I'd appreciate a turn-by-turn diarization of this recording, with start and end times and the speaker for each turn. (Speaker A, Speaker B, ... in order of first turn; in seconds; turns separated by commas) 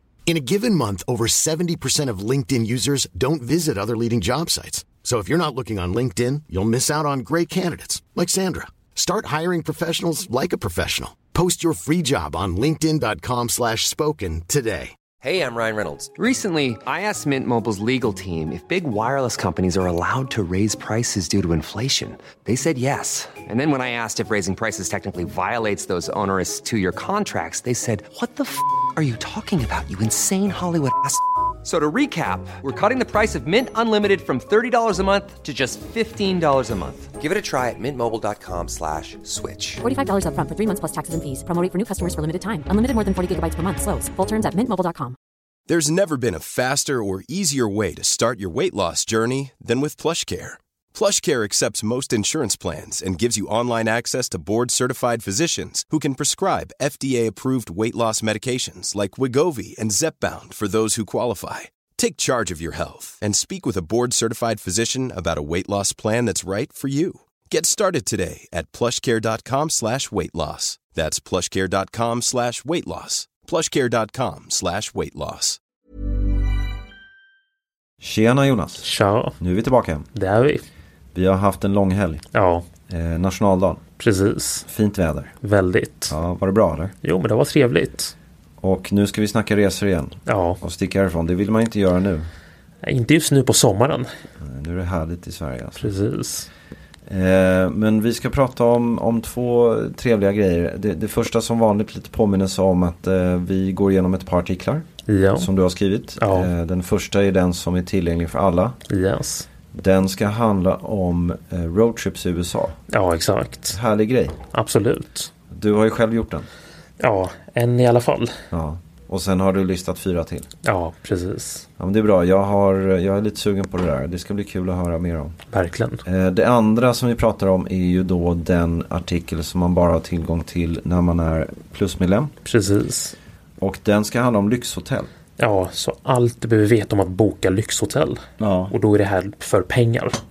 Speaker A: 0.3-15.0, Speaker B: 15.2-39.8, Speaker C: 39.8-45.2, Speaker D: 45.7-75.6, Speaker E: 78.0-78.9, Speaker F: 78.8-79.4, Speaker E: 79.4-80.1, Speaker F: 80.2-80.6, Speaker E: 81.1-82.2, Speaker F: 82.3-82.7, Speaker E: 82.9-83.8, Speaker F: 84.0-84.7, Speaker E: 84.7-85.3, Speaker F: 85.4-86.2, Speaker E: 86.1-87.0, Speaker F: 87.0-88.1, Speaker E: 88.6-92.3, Speaker F: 90.3-90.6, Speaker F: 92.8-94.1, Speaker E: 94.4-95.9, Speaker F: 95.8-96.5, Speaker E: 97.1-104.9, Speaker F: 105.1-105.5, Speaker E: 105.4-108.8, Speaker F: 106.2-106.5, Speaker F: 108.9-109.5, Speaker E: 109.7-112.8, Speaker F: 112.9-113.8, Speaker E: 113.7-114.4, Speaker F: 114.5-115.3, Speaker E: 115.5-116.5, Speaker F: 117.0-118.4, Speaker E: 118.5-120.5, Speaker F: 120.6-121.7, Speaker E: 121.8-125.4, Speaker F: 125.5-126.0, Speaker E: 126.0-132.3, Speaker F: 132.4-133.2, Speaker E: 133.6-135.1, Speaker F: 135.4-140.2, Speaker E: 138.4-138.7